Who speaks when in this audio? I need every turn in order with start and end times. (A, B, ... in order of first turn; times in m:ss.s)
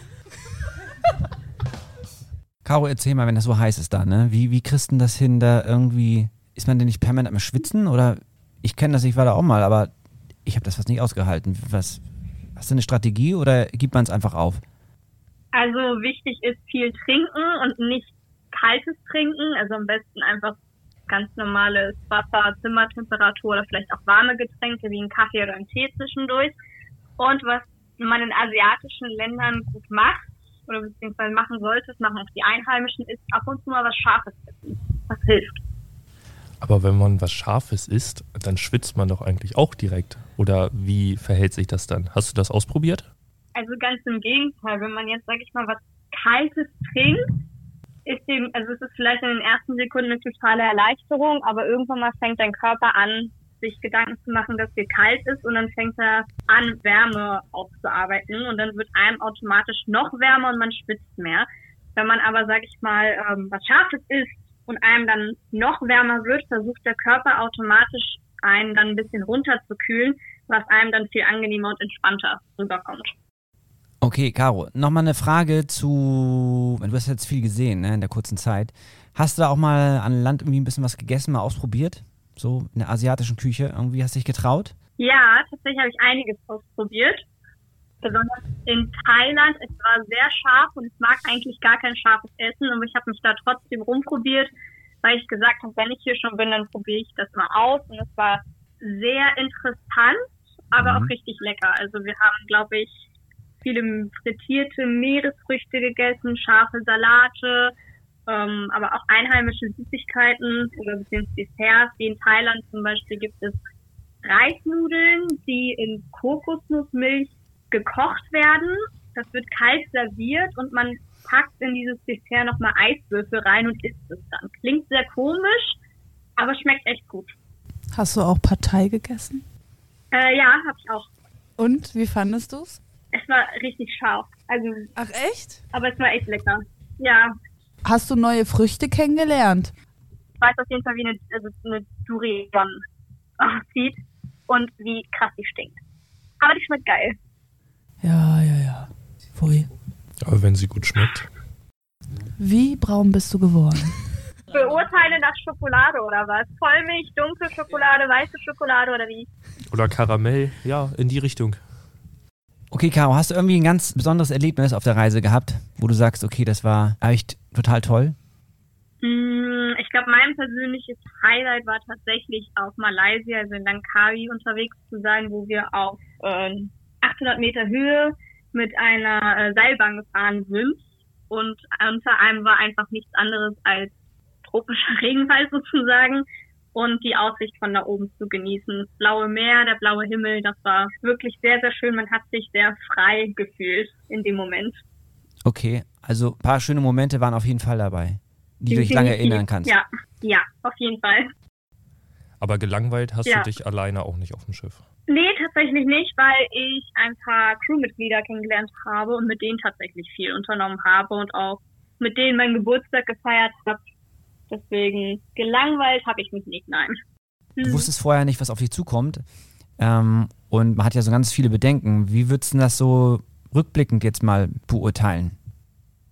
0:02.6-0:09.9 A
0:10.5-0:12.0 A
0:12.6-0:14.6 A
0:15.5-0:20.6 B
0:21.1-0:26.6 B
0:27.2-0:35.6 B
0:36.6-0:43.1 C
0:43.6-0:47.2 B
0:48.1-1:13.2 B
1:14.0-1:24.7 A
1:25.0-1:27.3 B
1:28.0-1:34.5 B
1:35.0-1:43.0 B
1:40.8-1:41.1 A
1:43.6-1:47.7 B
1:48.3-1:53.6 B
1:54.2-2:05.8 B
2:06.4-2:07.3 B
2:07.9-2:09.4 D
2:10.1-2:11.1 B
2:11.6-2:12.8 D
2:13.1-2:14.9 B
2:15.0-2:15.6 D
2:15.7-2:17.3 B
2:17.8-2:19.7 D
2:20.4-2:22.8 B
2:23.4-2:25.8 B
2:26.4-2:27.2 B
2:28.0-2:29.7 D
2:30.2-2:31.3 C
2:32.4-2:34.0 D
2:34.5-2:39.3 B
2:39.7-2:41.6 C
2:42.7-2:48.2 A
2:49.0-3:14.8 B
3:15.4-3:19.8 A
3:18.7-3:21.3 B
3:22.4-3:24.8 C
3:25.1-3:33.8 B
3:34.5-3:37.0 B
3:37.6-3:37.9 B
3:37.6-3:39.2 A
3:39.8-3:45.4 A